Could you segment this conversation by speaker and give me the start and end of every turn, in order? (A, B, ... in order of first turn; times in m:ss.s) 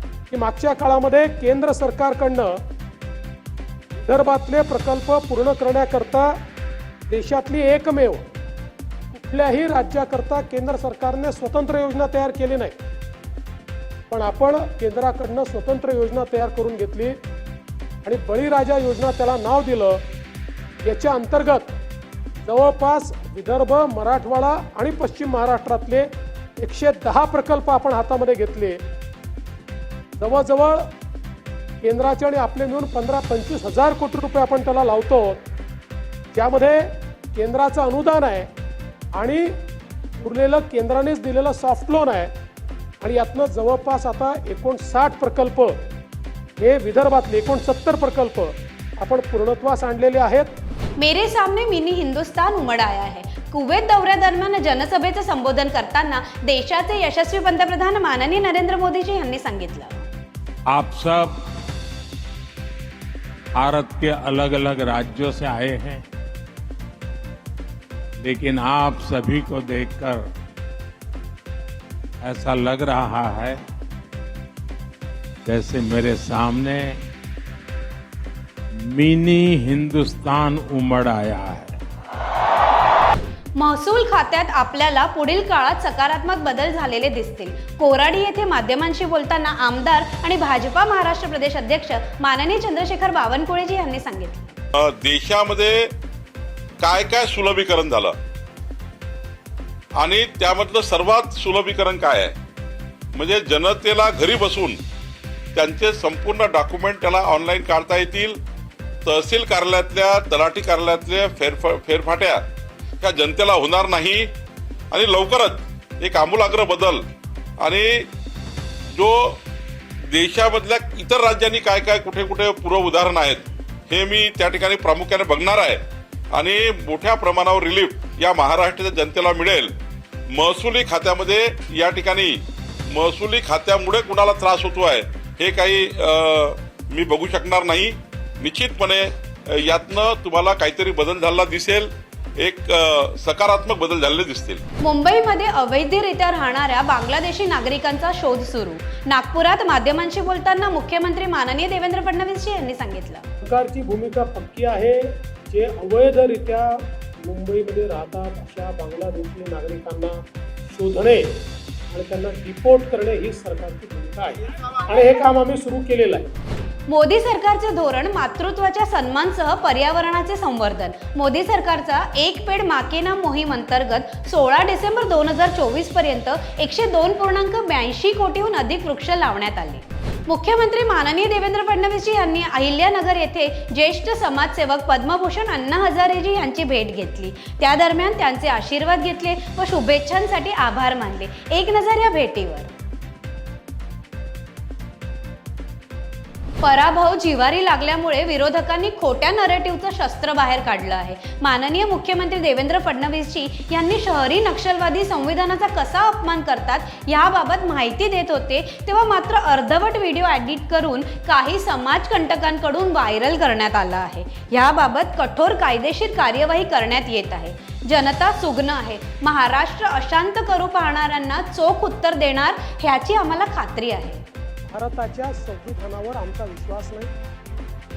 0:00.3-0:02.6 A
0:04.0-0:06.4 A
0:07.1-0:08.2 A
0:09.1-0:12.7 A
0:14.1-0:17.2 A
0:18.0-0:20.0 A
0:20.8-0:21.7 A
0:22.4-0:28.8 A
0:30.2-0:30.9 A
0:31.8-0:35.4 A
0:36.3-0:38.5 A
0:39.1-0:39.5 A
0:40.2-0:42.3 A
0:43.0-0:45.8 A
0:46.6-0:50.5 A
0:51.0-1:00.1 B
1:00.7-1:01.4 C
1:03.6-1:06.0 C
1:08.2-1:10.3 C
1:12.2-1:13.6 C
1:15.4-1:17.0 C
1:18.8-1:21.7 C
1:23.6-1:34.5 B
1:34.7-1:35.9 D
1:36.8-1:38.1 D
1:40.0-1:42.3 D
1:43.1-1:44.8 D
1:45.5-1:48.4 D
1:49.0-1:52.4 D
1:53.0-1:54.3 D
1:54.9-1:57.0 D
1:57.6-1:58.1 D
1:58.9-1:59.4 D
2:00.1-2:09.7 D
2:10.3-2:24.6 D
2:24.8-2:33.2 B
2:33.4-2:41.4 A
2:41.9-2:46.3 A
2:46.9-3:12.7 B
3:16.6-3:44.2 B
3:44.7-3:47.1 A